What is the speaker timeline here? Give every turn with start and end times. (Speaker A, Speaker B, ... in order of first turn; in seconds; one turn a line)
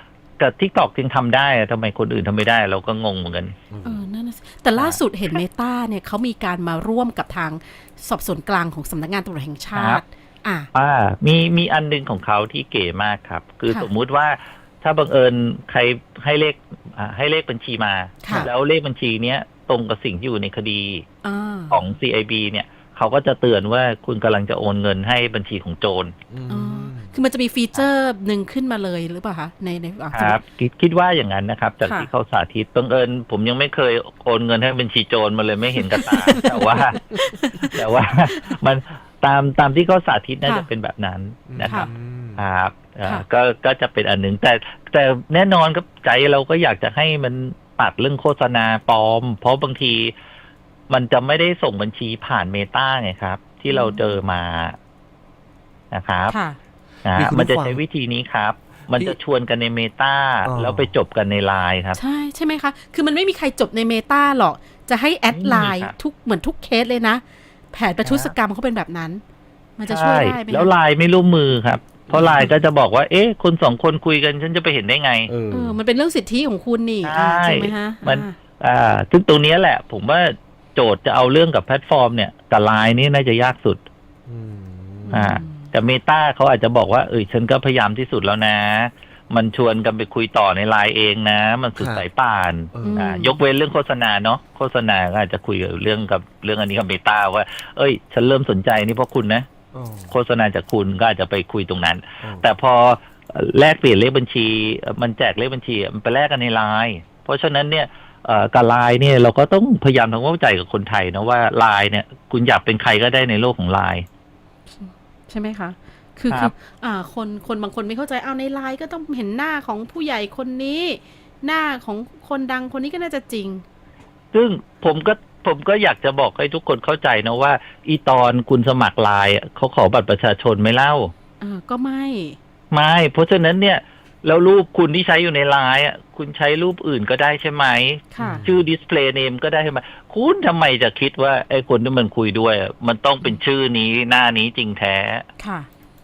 Speaker A: 0.4-3.5
Speaker B: 3.7-4.0
Speaker C: 3.8-10.7
Speaker A: 9.7-10.0
Speaker A: 10.7-21.1
Speaker C: 18.2-18.5
Speaker C: 21.2-21.9
Speaker A: 21.7-26.1
Speaker B: 26.3-27.1
Speaker C: 26.5-30.4
Speaker A: 30.1-37.1
Speaker C: 35.8-37.8
Speaker A: 37.6-50.1
Speaker B: 41.5-42.4
Speaker A: 50.9-54.8
Speaker C: 53.7-54.2
Speaker A: 55.9-56.4
Speaker C: 56.3-56.6
Speaker A: 57.0-62.0
Speaker B: 57.1-57.8
Speaker B: 60.4-60.9
Speaker C: 62.0-69.2
Speaker A: 65.3-65.9
Speaker C: 69.8-70.7
Speaker A: 69.9-75.3
Speaker B: 72.1-72.5
Speaker B: 75.3-75.8
Speaker C: 75.5-78.3
Speaker A: 77.0-83.8
Speaker B: 84.3-85.4
Speaker C: 85.1-85.7
Speaker A: 85.1-99.5
Speaker B: 91.8-92.0
Speaker B: 92.7-93.0
Speaker C: 92.8-93.4
Speaker B: 99.7-100.1
Speaker A: 100.1-114.0
Speaker B: 102.2-102.5
Speaker C: 114.7-123.6
Speaker A: 124.3-131.1
Speaker C: 131.4-132.4
Speaker A: 132.7-145.2
Speaker C: 138.1-138.4
Speaker B: 138.2-138.6
Speaker C: 145.4-145.7